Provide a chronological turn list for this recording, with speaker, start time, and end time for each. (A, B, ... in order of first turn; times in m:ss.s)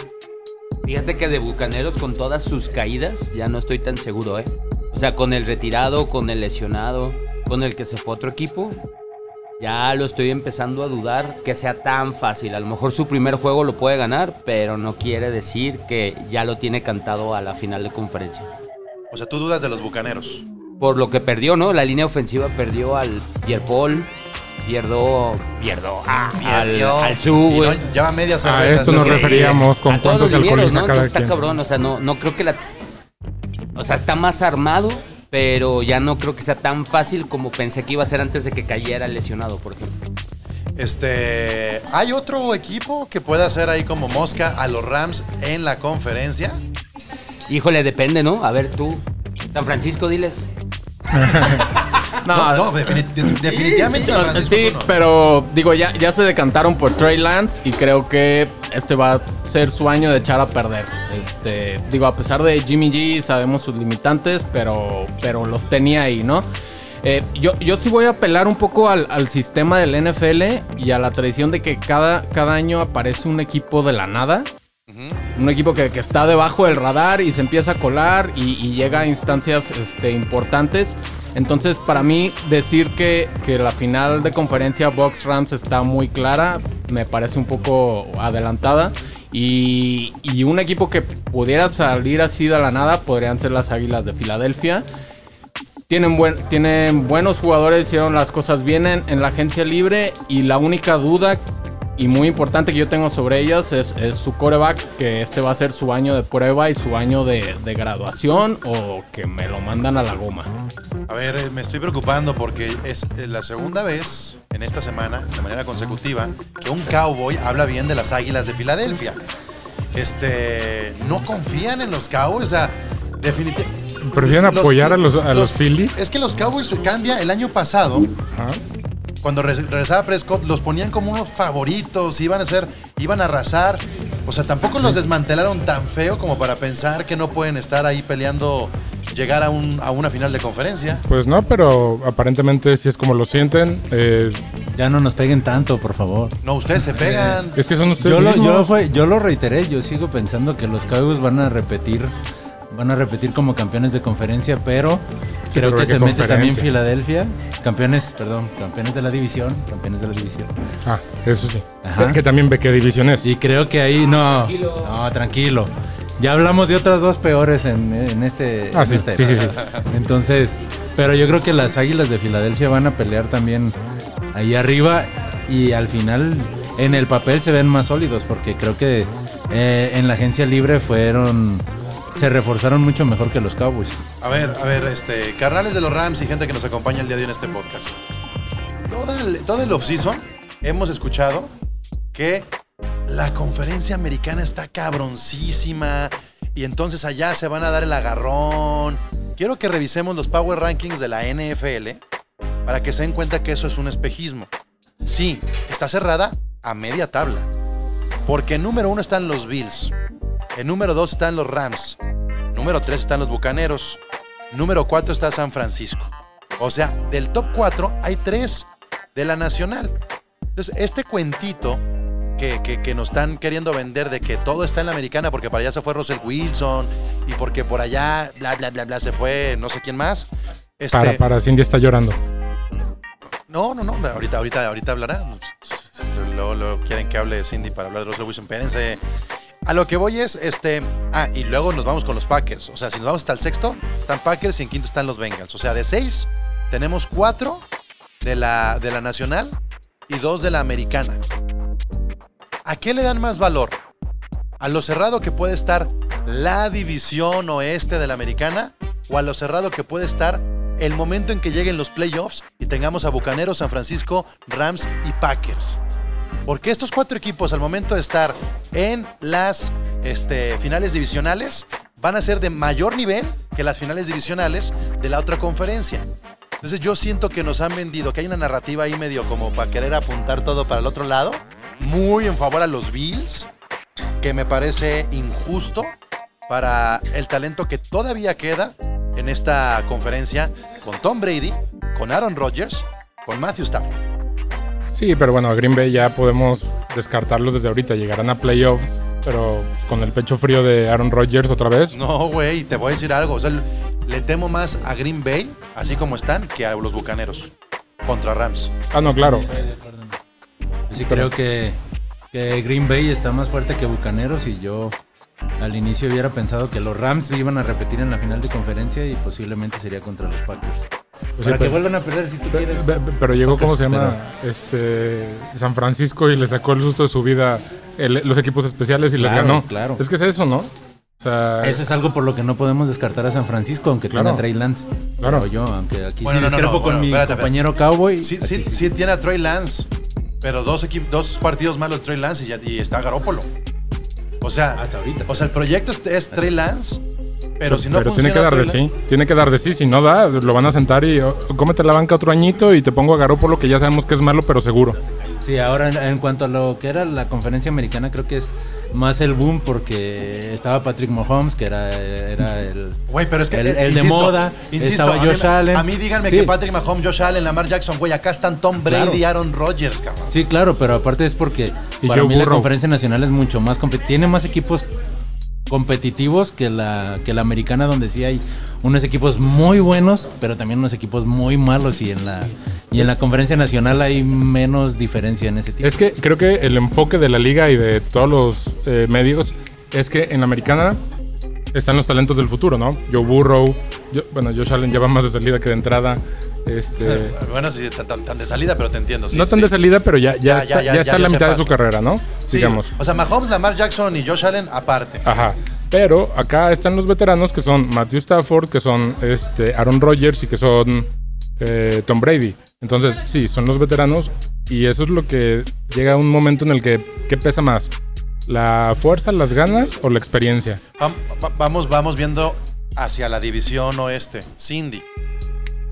0:00.8-0:08.8 A
0:09.6-0:18.5 A
0:19.1-0:20.4 B
0:20.8-0:24.1 A
0:24.6-0:27.8 A
0:26.3-0:29.7 B
0:28.4-0:31.3 C
0:28.8-0:32.6 A
0:33.8-0:39.9 A
0:40.8-0:46.6 B
0:47.5-0:49.0 A
0:49.5-0:50.4 A
0:51.3-0:51.5 C
0:52.2-0:52.9 D
0:52.3-0:54.9 B
0:53.5-1:06.5 D
1:07.0-1:14.5 D
1:14.9-1:15.2 B
1:15.4-1:34.8 D
1:35.9-1:41.4 D
1:42.0-1:50.5 D
1:51.1-1:59.2 B
1:59.9-2:08.2 B
2:04.0-2:06.0 C
2:08.3-2:08.6 C
2:09.2-2:21.0 B
2:21.1-2:24.4 C
2:24.7-2:26.4 E
2:26.4-2:27.6 B
2:26.9-2:27.4 E
2:27.5-2:28.8 C
2:28.0-2:32.1 E
2:32.7-2:40.5 E
2:35.5-2:36.7 C
2:40.8-2:43.3 C
2:41.8-2:42.2 E
2:43.2-2:53.7 E
2:44.2-2:44.9 A
2:48.7-2:49.6 C
2:49.3-2:49.6 B
2:54.3-3:01.6 E
3:02.2-3:04.0 E
3:04.2-3:08.0 B
3:08.9-3:11.5 B
3:12.1-3:12.5 B
3:13.1-3:22.0 B
3:22.6-3:24.5 B
3:25.0-3:27.5 B
3:28.2-3:29.9 B
3:30.5-3:32.0 B
3:32.5-3:40.0 B
3:40.6-3:41.8 B
3:42.4-3:51.2 B
3:50.9-3:52.2 C
3:53.5-3:59.0 B
3:59.6-4:07.6 B
4:08.2-4:09.6 B
4:10.1-4:11.2 B
4:12.6-4:13.8 B
4:14.6-4:25.8 B
4:26.4-4:36.1 B
4:36.6-4:43.5 B
4:44.2-4:45.9 B
4:46.5-4:54.0 B
4:54.9-5:02.0 C
5:01.9-5:08.8 B
5:08.9-5:09.5 C
5:09.0-5:10.2 E
5:10.9-5:11.8 E
5:11.0-5:11.3 C
5:12.3-5:15.0 E
5:15.6-5:24.2 E
5:21.4-5:21.8 C
5:22.5-5:31.8 C
5:29.2-5:30.0 E
5:31.6-5:38.9 E
5:34.1-5:34.4 C
5:35.2-5:35.5 C
5:36.2-5:37.5 B
5:38.2-5:39.9 B
5:40.4-5:43.5 B
5:44.4-5:47.0 B
5:44.8-5:45.5 E
5:47.6-5:48.8 B
5:47.7-5:55.0 C
5:55.4-6:03.0 E
6:03.1-6:10.3 B
6:03.5-6:06.5 E
6:08.8-6:09.2 E
6:10.3-6:14.9 E
6:12.0-6:12.7 C
6:15.7-6:26.0 E
6:25.8-6:31.0 C
6:31.7-6:37.3 C
6:37.0-6:39.7 B
6:39.3-6:42.9 C
6:40.4-6:41.7 B
6:42.5-6:45.2 B
6:45.2-6:51.1 C
6:51.6-6:57.9 C
6:58.5-7:00.8 C
7:01.0-7:05.0 B